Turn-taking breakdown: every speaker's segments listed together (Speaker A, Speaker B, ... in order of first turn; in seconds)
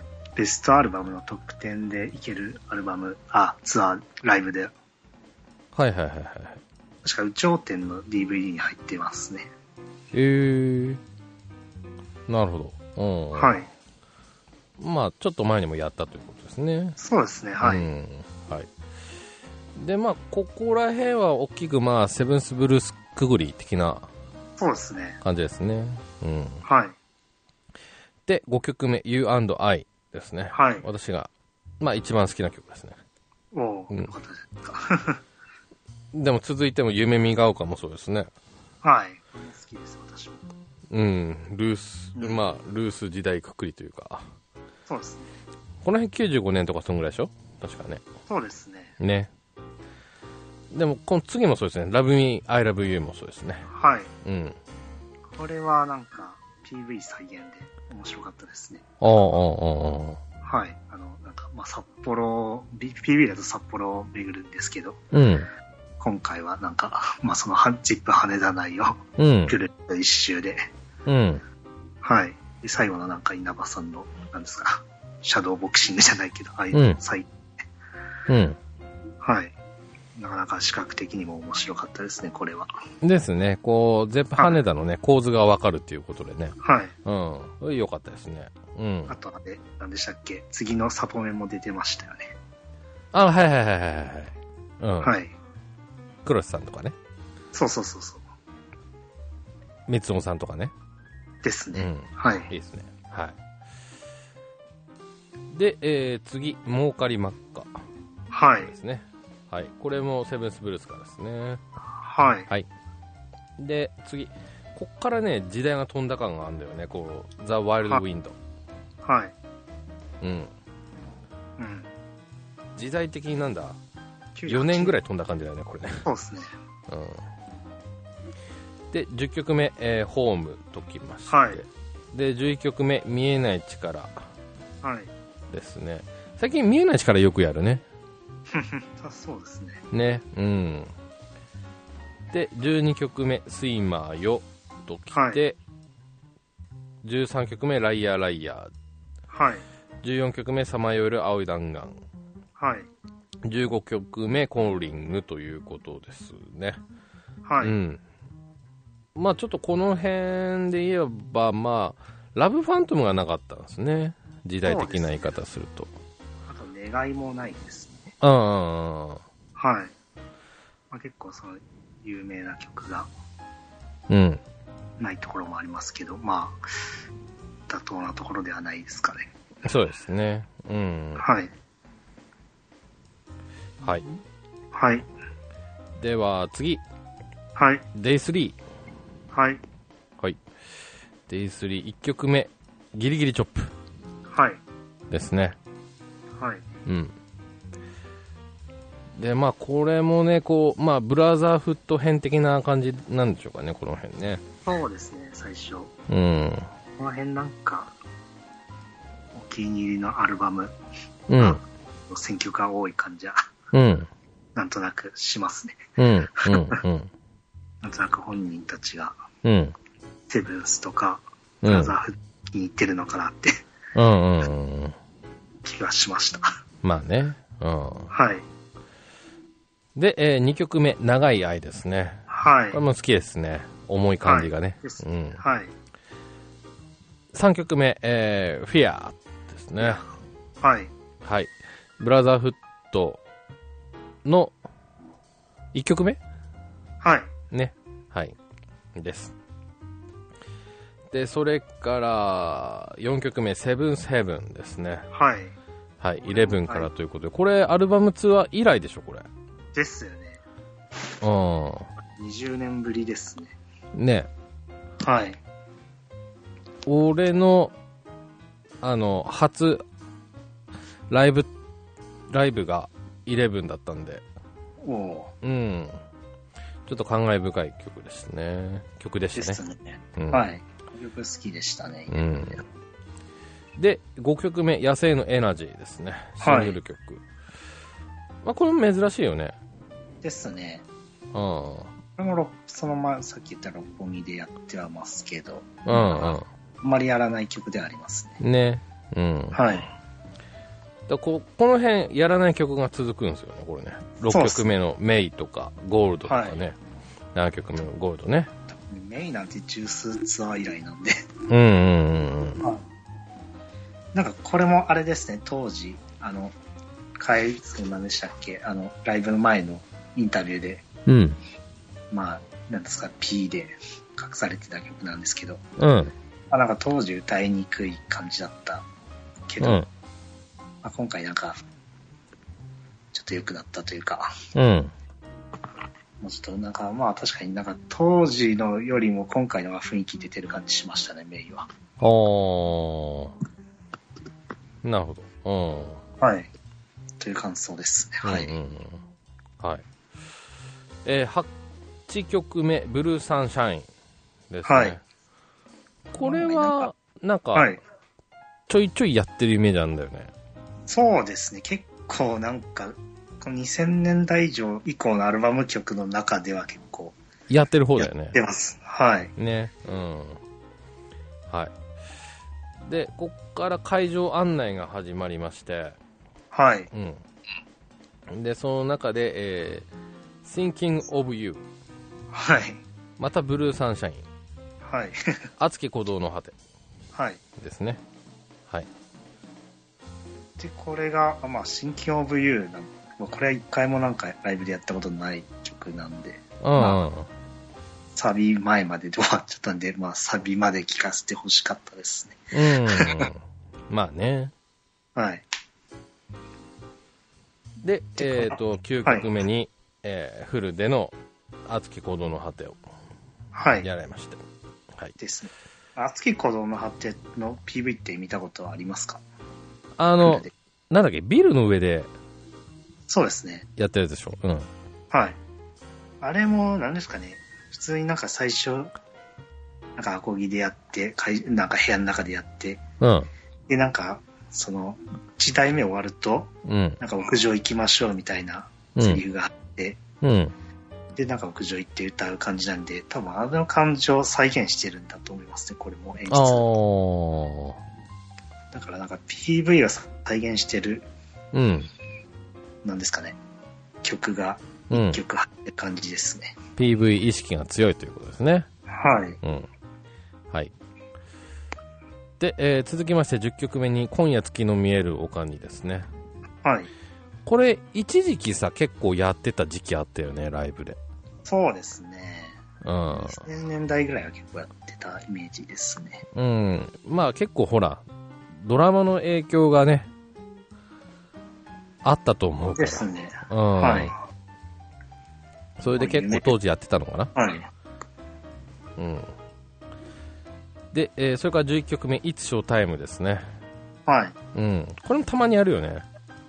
Speaker A: 0.3-4.7, 7.0-9.5, 13.3-13.7, 17.0-17.9, 24.6-25.2, 26.6-26.9, 30.5-30.9, 33.5-35.2, 38.8-40.5, 42.1-42.4, 44.9-45.3, 48.3-48.9, 53.7-54.1, 55.3-58.9, 60.4-65.0, 66.0-70.7, 72.0-77.3, 79.2-79.5, 80.2-82.7, 86.6-86.9, 89.1-92.3, 95.0-95.3, 97.5-98.2, 101.4-102.5, 108.3-108.7, 112.0-112.5, 119.0-119.3, 121.6-121.9, 124.3-125.0, 126.0-126.5, 131.3-131.6, 134.8-135.1, 138.5-139.8, 145.1-145.4, 149.3-149.6, 152.6-152.9, 157.4-157.8, 164.6-165.3, 166.5-168.1, 169.6-169.9, 170.9-173.1, 175.0-176.6, 177.7-179.3, 181.2-181.5, 184.7-185.1, 187.6-187.8, 189.3-189.6, 194.3-194.6, 196.4-196.6, 204.6-205.9, 207.0-207.9, 209.3-210.7, 211.4-213.4, 214.5-216.8, 217.8-219.2, 220.3-223.5, 225.6-226.5, 228.1-228.4, 232.3-232.8, 234.2-235.7, 239.8-240.1, 240.6-240.9, 247.0-247.3, 255.1-255.5, 256.2-256.9, 259.7-260.4, 262.2-263.6, 265.0-265.4, 274.8-275.3, 279.3-282.2, 286.4-286.8, 290.2-290.8, 292.2-298.4, 299.5-299.9, 304.3-304.7, 306.3-306.6, 308.7-311.3, 314.1-316.5, 317.2-320.8, 322.1-325.6, 326.5-328.8, 329.5-329.9, 330.8-331.6, 333.1-334.4, 336.2-341.7, 346.2-346.5, 347.2-348.5, 354.6-355.0, 356.2-356.9, 357.5-357.8, 360.9-367.1, 368.0-369.3, 376.5-376.9, 382.3-382.8, 384.8-385.5, 387.1-387.4, 390.6-397.0, 398.1-403.3, 405.1-405.4, 408.2-409.2, 413.5-413.9, 415.2-419.2, 420.2-420.5, 423.1-423.7, 425.1-425.4, 426.2-428.9, 429.9-432.8, 433.7-440.0, 441.1-446.7, 448.7-451.1, 452.8-453.4, 454.0-456.6, 458.9-459.4, 466.6-466.9, 471.4-472.6, 473.1-476.2, 482.7-484.1, 486.0-486.5, 487.3-487.7, 494.1-494.3
Speaker B: 5.7-6.6, 10.1-11.0, 12.3-13.5, 14.8-17.0, 17.6-18.7, 19.7-24.1, 25.2-26.6, 28.2-33.0, 36.1-38.3, 40.9-44.2, 45.8-48.0, 49.0-49.3, 50.7-53.7, 54.2-54.6, 59.0-60.2, 65.1-65.5, 69.2-69.5, 71.0-71.4, 76.7-77.0, 78.3-78.6, 83.0-89.1, 93.1-95.1, 96.2-96.9, 99.9-100.7, 101.8-103.4, 105.5-107.7, 108.7-111.6, 113.6-118.3, 120.2-120.5, 122.7-123.8, 124.5-126.0, 126.9-127.2, 128.9-134.2, 135.5-137.8, 139.9-140.9, 142.3-145.6, 147.0-148.7, 150.0-152.0, 153.4-156.8, 157.6-158.0, 159.1-165.9, 168.2-169.2, 174.1-174.4, 179.6-181.2, 186.0-186.8, 187.9-188.6, 191.3-193.7, 195.1-195.6, 196.8-197.1, 199.2-204.4, 206.1-206.7, 211.3-211.6, 213.7-214.1, 216.0-217.1, 219.4-219.7, 221.6-221.9, 223.9-224.9, 226.8-228.1, 229.9-235.4, 237.3-240.0, 241.2-243.2, 244.2-244.5, 245.7-246.2, 247.5-248.3, 248.9-249.3, 251.1-255.1, 256.0-259.3, 261.2-261.9, 263.9-264.3, 266.9-267.7, 268.8-269.8, 271.1-271.5, 272.3-274.2, 275.4-276.0, 276.9-279.6, 280.2-280.4, 282.1-282.6, 283.8-287.2, 288.4-289.6, 291.3-291.9, 295.9-296.4, 298.4-299.6, 301.1-306.8, 307.3-308.5, 311.5-312.6, 321.1-321.4, 325.8-326.1, 329.6-329.9, 334.5-334.9, 342.0-343.3, 344.8-346.0, 348.2-349.0, 349.6-349.8, 351.0-351.5, 352.1-353.9, 354.5-355.0, 356.1-357.8, 358.7-360.3, 367.5-368.4, 369.4-370.4, 371.5-371.7, 372.8-376.0, 376.9-377.2, 378.3-379.9, 380.4-381.6, 383.2-384.2, 385.6-386.5, 387.6-388.0, 396.6-397.3, 402.5-404.5, 407.8-411.1, 411.6-412.8, 413.8-415.1, 420.0-422.1, 423.8-424.7, 433.0-433.3, 436.6-437.0, 440.2-440.5, 446.3-447.8, 451.5-451.9, 454.9-455.2, 456.8-458.7, 459.4-459.7, 462.4-466.1, 467.4-471.0, 472.8-473.4, 476.3-480.1, 482.0-484.1, 485.8-487.3, 489.0-489.3, 490.9-493.5, 494.5-496.0